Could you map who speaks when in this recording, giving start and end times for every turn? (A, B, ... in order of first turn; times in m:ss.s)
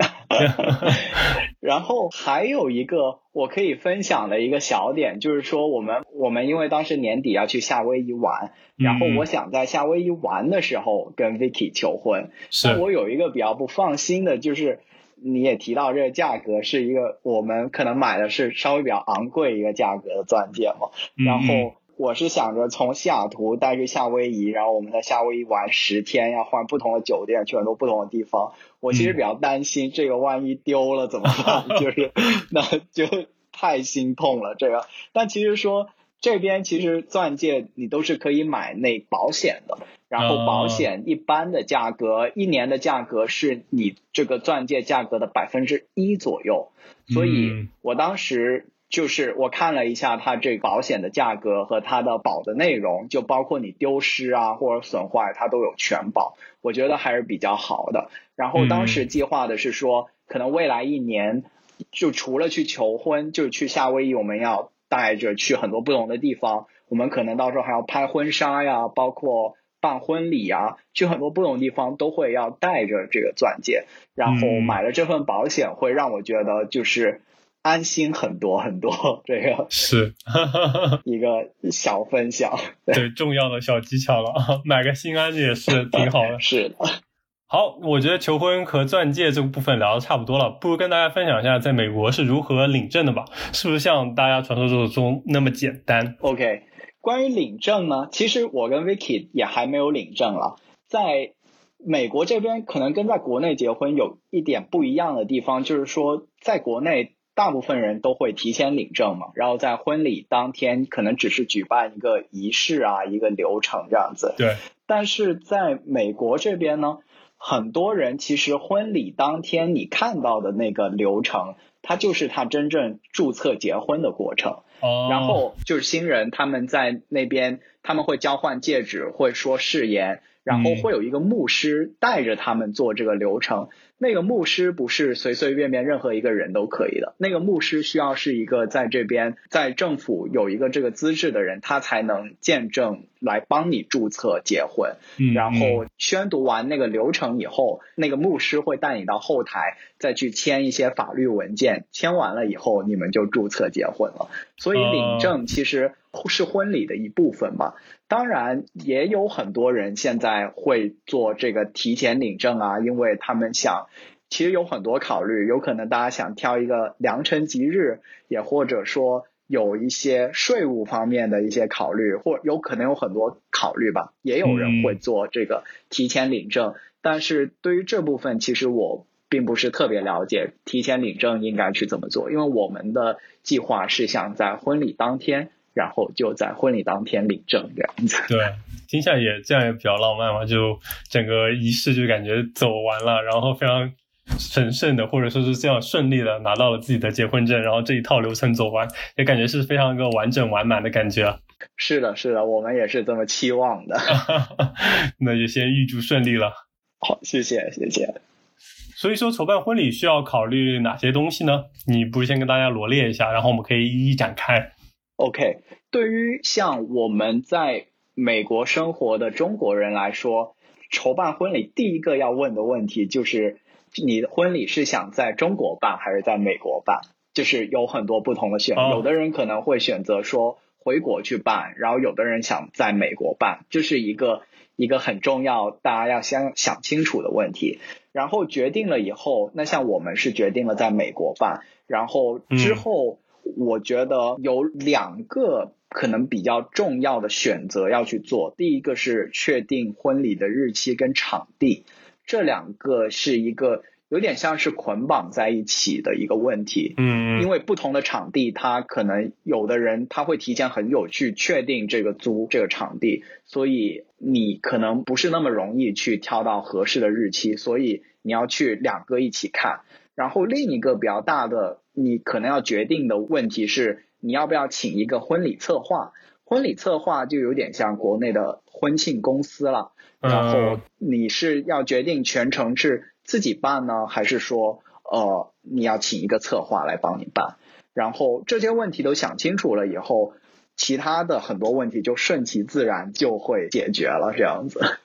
0:00.3-1:19.7 A
0:00.4-0:01.2 B
0:08.8-0:09.2 B
0:12.5-0:12.8 B
0:21.2-0:21.7 B
0:31.4-0:31.8 B
0:40.2-0:40.9 B
0:47.1-0:47.7 B
0:58.6-0:59.0 B
1:14.2-1:14.8 B
1:19.7-1:21.0 B
1:21.0-1:23.0 A
1:22.9-1:26.4 B
1:25.9-1:26.9 A
1:27.5-1:36.2 B
1:36.2-1:41.3 A
1:41.8-3:08.4 A
2:04.8-2:05.4 B
2:10.5-2:10.9 B
2:25.2-2:25.8 B
2:34.7-2:35.4 B
2:54.4-2:55.0 B
3:08.3-3:21.4 B
3:21.8-3:24.2 A
3:24.1-3:26.5 B
3:27.0-3:28.2 A
3:29.0-3:34.7 B
3:35.2-4:54.8 A
3:48.8-3:49.0 B
4:02.5-4:02.8 B
4:17.0-4:17.5 B
4:40.2-4:40.8 B